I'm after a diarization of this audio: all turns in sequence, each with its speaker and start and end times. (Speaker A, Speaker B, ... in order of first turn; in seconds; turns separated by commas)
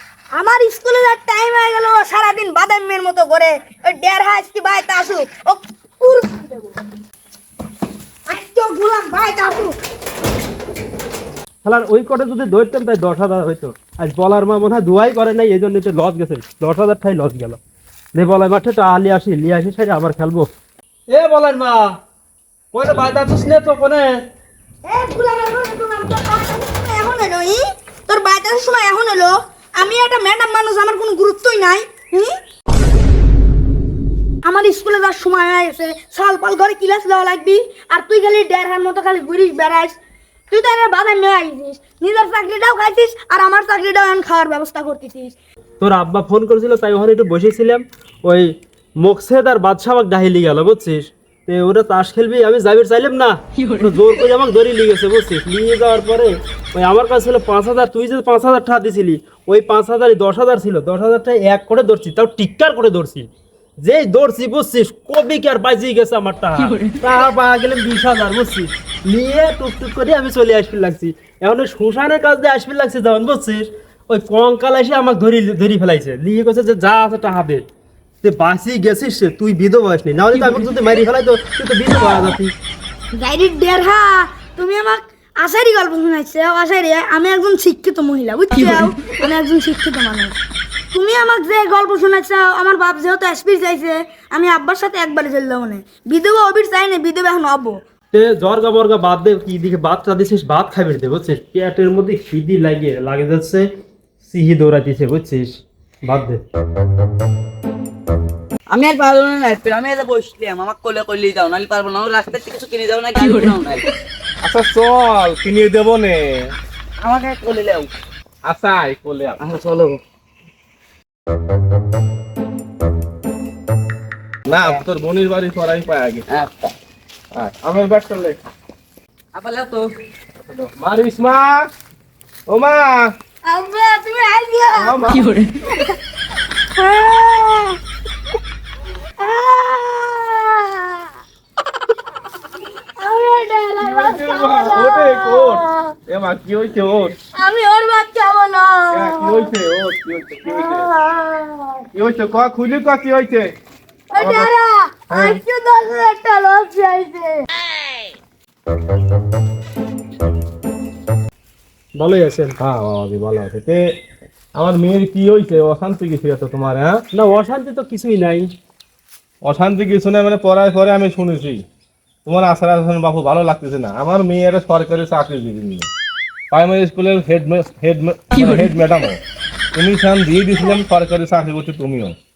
Speaker A: 0.4-6.7, Speaker A: 8.3-9.7, Speaker B: 11.6-17.6, Speaker B: 18.1-20.5, Speaker B: 21.1-21.9, Speaker B: 22.7-24.1, Speaker A: 24.9-32.3, Speaker A: 34.4-40.0, Speaker A: 40.5-45.3, Speaker B: 45.8-63.3, Speaker B: 63.8-77.6, Speaker B: 78.2-82.5, Speaker A: 83.1-90.3, Speaker A: 90.9-97.8, Speaker B: 98.1-103.6, Speaker B: 104.2-106.4, Speaker C: 108.7-113.8, Speaker D: 114.4-116.5, Speaker C: 117.0-117.9, Speaker D: 118.5-119.4, Speaker C: 119.4-120.0, Speaker D: 124.5-126.2, Speaker D: 127.3-128.4, Speaker C: 129.3-129.9, Speaker D: 130.5-131.7, Speaker D: 132.5-133.1, Speaker A: 133.4-135.9, Speaker D: 134.7-135.3, Speaker A: 136.8-137.8, Speaker A: 139.2-141.1, Speaker A: 143.0-145.9, Speaker D: 143.8-147.2, Speaker A: 147.3-149.5, Speaker D: 148.9-150.9, Speaker A: 150.4-151.8, Speaker D: 151.9-153.5, Speaker A: 154.1-157.5, Speaker D: 154.2-154.5, Speaker D: 155.1-155.4, Speaker B: 162.0-162.5, Speaker D: 162.6-163.8, Speaker D: 164.5-167.0, Speaker B: 167.1-168.5, Speaker D: 169.4-171.6, Speaker D: 172.2-175.9, Speaker D: 176.5-179.2, Speaker D: 179.7-182.1